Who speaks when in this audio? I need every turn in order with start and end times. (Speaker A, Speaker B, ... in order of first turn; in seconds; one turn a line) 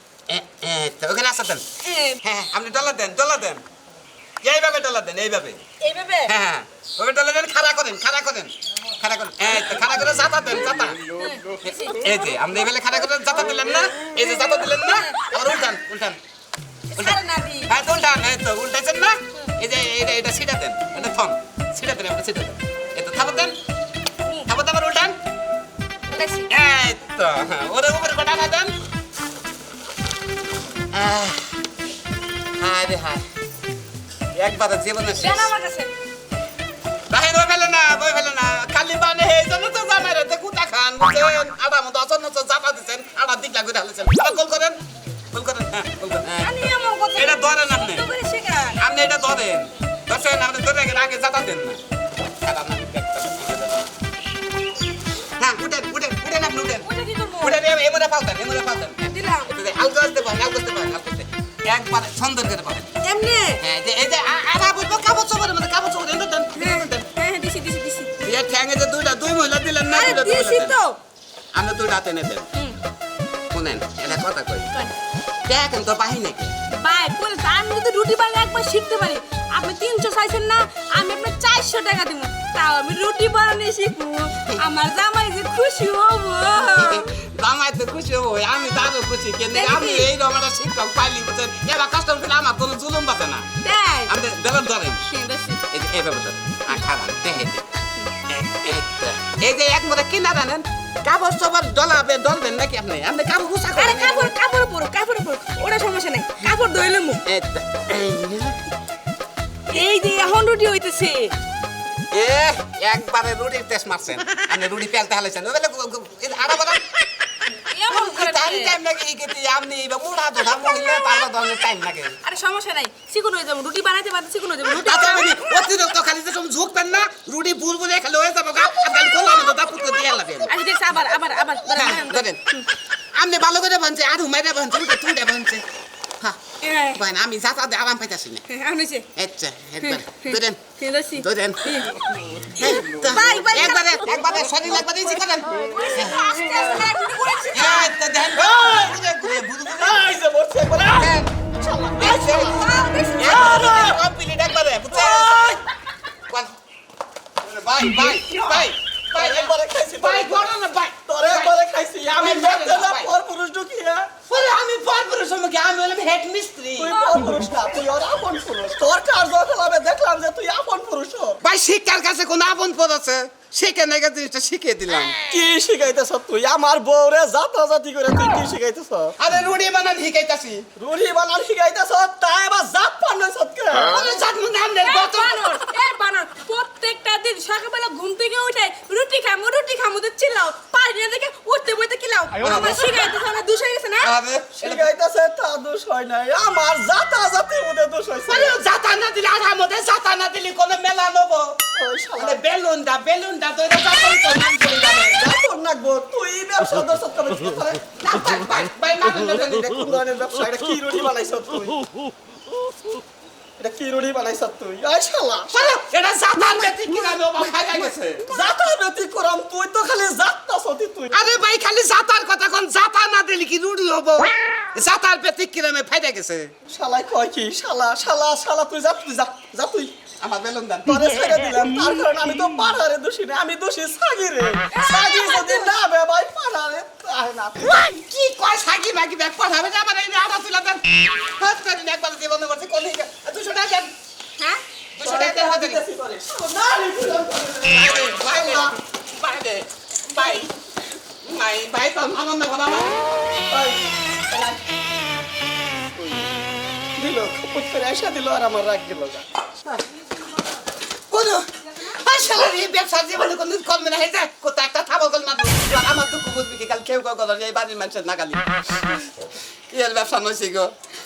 Speaker A: 0.3-1.7
Speaker B: 1.8-2.2
Speaker A: 2.2-3.6
Speaker A: 4.4-5.6
Speaker B: 5.8-6.3
Speaker A: 6.3-11.0
Speaker B: 10.5-12.4
Speaker A: 11.6-16.2
Speaker B: 14.3-15.7
Speaker B: 16.9-17.7
Speaker A: 16.9-23.6
Speaker B: 24.2-24.5
Speaker A: 24.5-25.2
Speaker B: 26.1-26.5
Speaker A: 26.5-28.8
Speaker A: 30.9-31.6
Speaker A: 32.6-33.3
Speaker A: 34.3-35.5
Speaker B: 35.1-35.9
Speaker A: 37.1-44.8
Speaker A: 45.3-48.0
Speaker B: 46.4-48.9
Speaker A: 48.8-51.8
Speaker A: 52.4-53.9
Speaker A: 55.4-56.9
Speaker B: 56.8-57.7
Speaker A: 57.4-62.9
Speaker B: 59.0-59.6
Speaker B: 63.0-63.6
Speaker A: 63.6-67.1
Speaker B: 66.5-68.2
Speaker A: 68.2-70.8
Speaker B: 69.9-71.0
Speaker A: 71.5-72.5
Speaker A: 73.5-74.7
Speaker A: 75.5-76.6
Speaker B: 76.7-87.1
Speaker A: 86.7-93.5
Speaker B: 89.5-90.1
Speaker B: 93.6-94.2
Speaker A: 94.1-95.1
Speaker B: 95.1-95.6
Speaker A: 95.7-97.7
Speaker A: 98.3-104.3
Speaker B: 103.7-107.2
Speaker A: 107.3-108.6
Speaker B: 109.7-111.4
Speaker A: 112.1-116.8
Speaker B: 117.7-118.8
Speaker A: 117.9-122.2
Speaker B: 120.7-121.4
Speaker B: 122.2-125.5
Speaker A: 124.8-130.5
Speaker B: 130.4-132.7
Speaker A: 131.7-132.4
Speaker A: 133.2-135.6
Speaker B: 136.6-137.1
Speaker A: 136.9-138.4
Speaker B: 138.5-139.1
Speaker A: 139.2-140.6
Speaker B: 139.8-142.0
Speaker A: 141.2-141.8
Speaker B: 142.6-148.0
Speaker A: 142.6-146.2
Speaker A: 147.5-150.1
Speaker C: 148.3-149.0
Speaker C: 149.7-152.7
Speaker A: 151.0-151.3
Speaker A: 152.0-155.6
Speaker B: 152.0-153.4
Speaker C: 153.2-154.0
Speaker C: 154.9-155.6
Speaker A: 157.4-161.6
Speaker C: 158.4-160.5
Speaker C: 161.1-164.1
Speaker A: 162.2-163.1
Speaker A: 164.3-167.0
Speaker C: 166.8-171.4
Speaker B: 166.9-167.3
Speaker A: 171.4-175.2
Speaker C: 175.3-179.2
Speaker A: 179.2-180.7
Speaker C: 180.8-184.2
Speaker A: 183.8-185.4
Speaker B: 184.8-194.2
Speaker A: 192.4-192.8
Speaker A: 194.0-194.9
Speaker C: 194.6-198.6
Speaker A: 198.3-201.6
Speaker C: 201.8-202.4
Speaker A: 202.2-205.3
Speaker C: 205.2-207.8
Speaker A: 208.0-209.8
Speaker C: 209.6-211.8
Speaker C: 213.6-215.6
Speaker A: 215.5-218.3
Speaker C: 218.3-221.2
Speaker A: 221.1-226.5
Speaker C: 226.7-229.9
Speaker A: 230.2-230.9
Speaker C: 230.8-237.7
Speaker B: 234.7-235.7
Speaker A: 237.7-243.9
Speaker A: 244.9-245.8
Speaker C: 245.0-248.8
Speaker A: 247.7-250.5
Speaker B: 250.2-250.5
Speaker A: 251.2-253.0
Speaker C: 253.5-254.6
Speaker C: 257.0-259.2
Speaker A: 261.1-269.1
Speaker A: 269.7-270.7